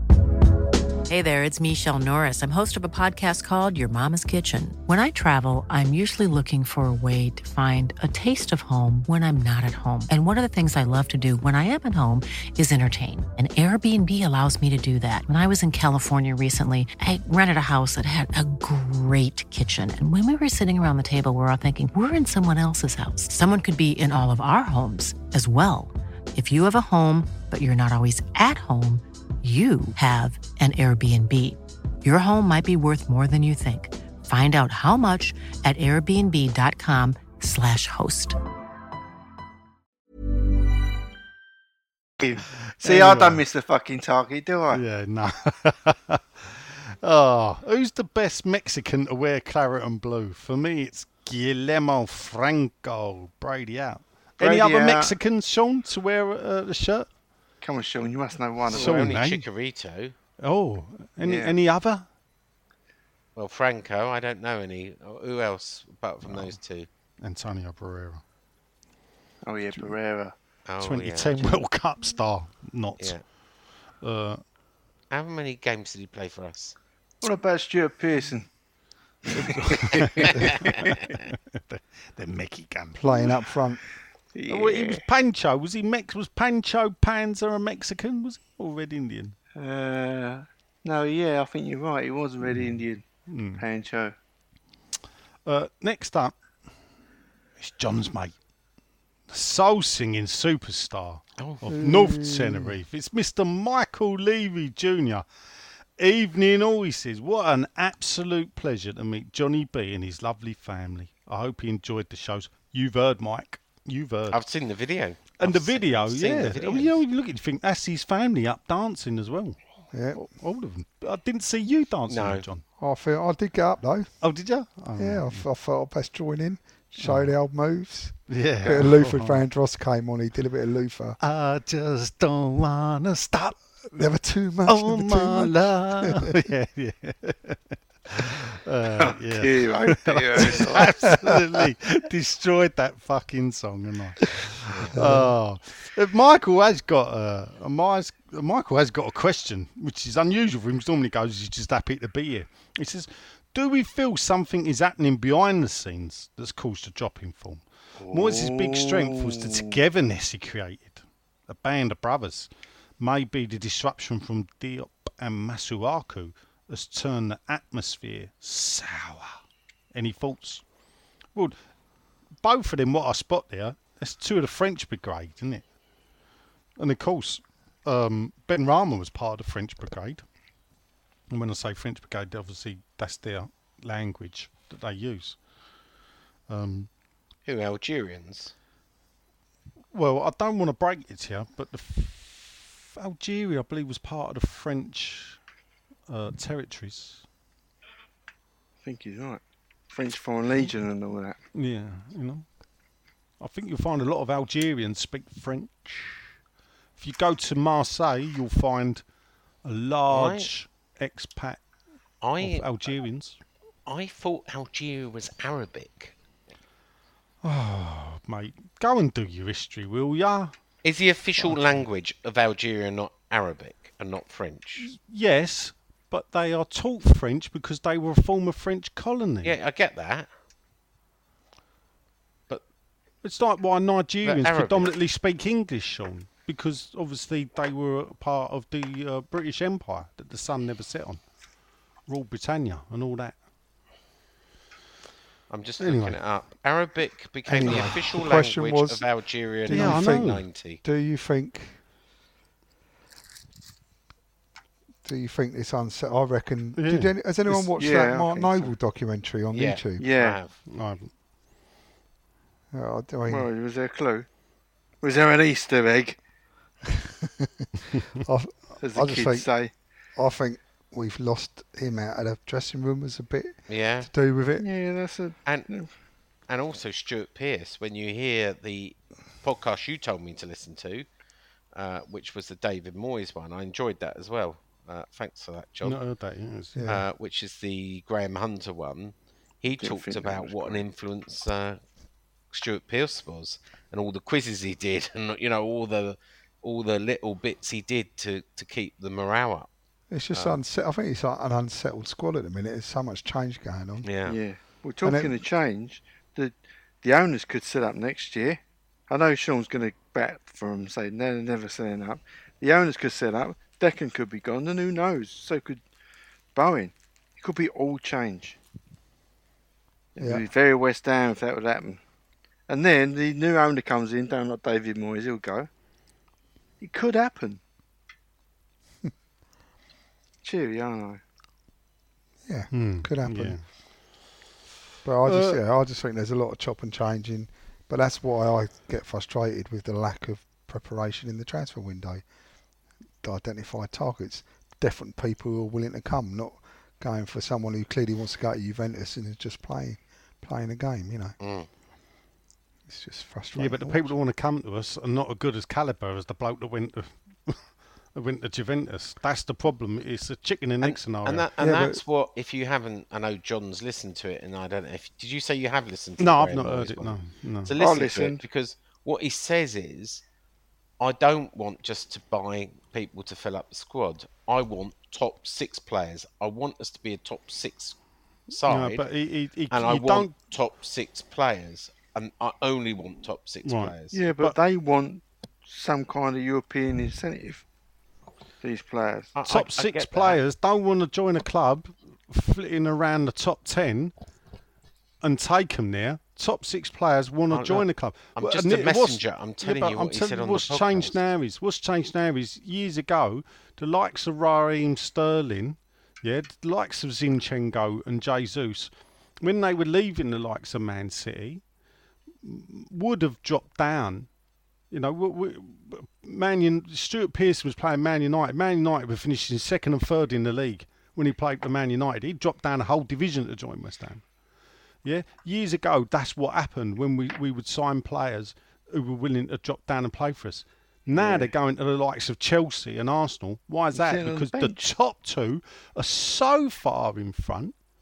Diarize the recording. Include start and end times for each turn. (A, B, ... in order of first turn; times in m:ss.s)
0:01.1-0:38.4 A
0:42.2-0:44.8 B
0:42.5-0:43.4 C
0:44.7-0:57.1 C
0:54.4-0:55.2 B
0:57.6-0:59.1 B
0:58.7-0:59.4 C
0:58.7-1:00.2 D
1:00.4-1:02.1 C
1:01.2-1:01.6 B
1:03.4-1:06.9 D
1:06.2-1:06.6 C
1:07.2-1:08.2 C
1:09.4-1:10.4 B
1:10.7-1:11.4 D
1:10.8-1:13.2 C
1:14.0-1:14.4 C
1:15.1-1:16.8 D
1:17.2-1:18.5 B
1:19.3-1:20.9 B
1:19.3-1:23.3 C
1:20.4-1:21.0 D
1:23.0-1:23.8 E
1:24.4-1:25.0 B
1:24.5-1:29.4 C
1:29.6-1:33.0 B
1:32.4-1:33.6 C
1:33.6-1:34.2 B
1:35.4-1:36.4 C
1:37.6-1:38.3 C
1:39.3-1:45.2 C
1:41.4-1:41.8 D
1:46.0-1:54.4 C
1:54.3-1:57.0 D
1:55.4-1:59.6 C
1:59.9-2:00.2 E
2:00.1-2:02.6 C
2:02.1-2:02.5 D
2:02.8-2:04.1 E
2:04.2-2:05.4 C
2:05.0-2:11.2 E
2:07.0-2:07.3 C
2:08.3-2:09.4 C
2:11.2-2:14.0 C
2:14.0-2:16.3 E
2:14.7-2:49.4 C
2:19.0-2:21.2 B
2:24.9-2:25.3 E
2:38.0-2:39.8 B
2:49.9-2:50.6 C
2:52.4-2:55.6 C
2:56.8-3:00.2 C
3:01.3-3:05.4 C
3:06.5-3:06.9 C
3:07.5-3:08.5 D
3:09.9-3:15.4 C
3:16.1-3:17.2 C
3:18.8-3:21.4 B
3:21.5-3:22.4 C
3:23.4-3:26.2 C
3:27.0-3:29.0 C
3:29.6-3:31.6 C
3:30.1-3:30.5 D
3:32.2-3:32.7 D
3:32.4-3:33.4 C
3:33.9-3:36.2 D
3:37.4-3:40.5 C
3:40.8-3:44.9 D
3:41.4-3:41.8 C
3:44.8-3:49.6 C
3:49.4-3:50.3 D
3:53.2-4:01.2 C
3:54.2-3:54.9 D
4:02.1-4:03.4 C
4:05.5-4:10.8 D
4:05.8-4:06.2 C
4:07.5-4:09.0 E
4:07.6-4:08.0 C
4:09.7-4:11.8 E
4:09.7-4:10.5 C
4:15.0-4:20.1 E
4:16.8-4:17.6 C
4:17.8-4:18.7 B
4:19.5-4:20.6 D
4:20.0-4:20.4 B
4:20.7-4:21.1 C
4:22.7-4:23.5 E
4:23.3-4:24.3 B
4:25.0-4:26.2 B
4:27.0-4:27.7 E
4:28.2-4:29.5 E
4:28.8-4:29.7 B
4:30.2-4:34.6 E
4:33.7-4:34.1 D
4:34.6-4:35.9 B
4:36.5-4:41.1 D
4:41.8-4:46.0 D
4:45.8-4:46.8 C
4:46.8-4:47.0 E
4:46.9-4:51.8 D
4:49.7-4:50.8 B
4:52.5-4:59.7 D
5:00.1-5:04.1 E
5:00.3-5:00.6 D
5:04.0-5:04.4 D
5:04.3-5:15.8 B
5:05.0-5:05.3 E
5:16.6-5:18.6 B
5:20.2-5:22.0 B
5:20.2-5:20.4 E
5:22.7-5:25.7 B
5:26.8-5:27.6 B
5:30.4-5:31.2 B
5:32.5-5:33.6 E
5:32.7-5:33.6 C
5:35.0-5:42.2 E
5:35.2-5:35.6 C
5:43.2-5:51.4 E
5:51.4-5:51.7 D
5:52.9-5:54.1 E
5:53.6-5:57.6 C
5:58.2-6:01.5 C
6:00.8-6:10.2 D
6:01.6-6:02.0 E
6:06.2-6:07.7 C
6:07.8-6:08.4 B
6:11.0-6:18.0 D
6:18.5-6:19.1 D
6:18.6-6:20.3 C
6:19.7-6:24.2 D
6:23.6-6:24.6 C
6:24.1-6:27.6 B
6:28.6-6:29.3 B
6:29.4-6:30.4 D
6:29.4-6:34.1 C
6:35.2-6:51.6 C
6:37.5-6:41.2 D
6:52.4-6:54.3 C
6:54.9-7:04.2 C
7:05.0-7:17.7 C
7:11.2-7:11.5 B
7:13.9-7:14.9 B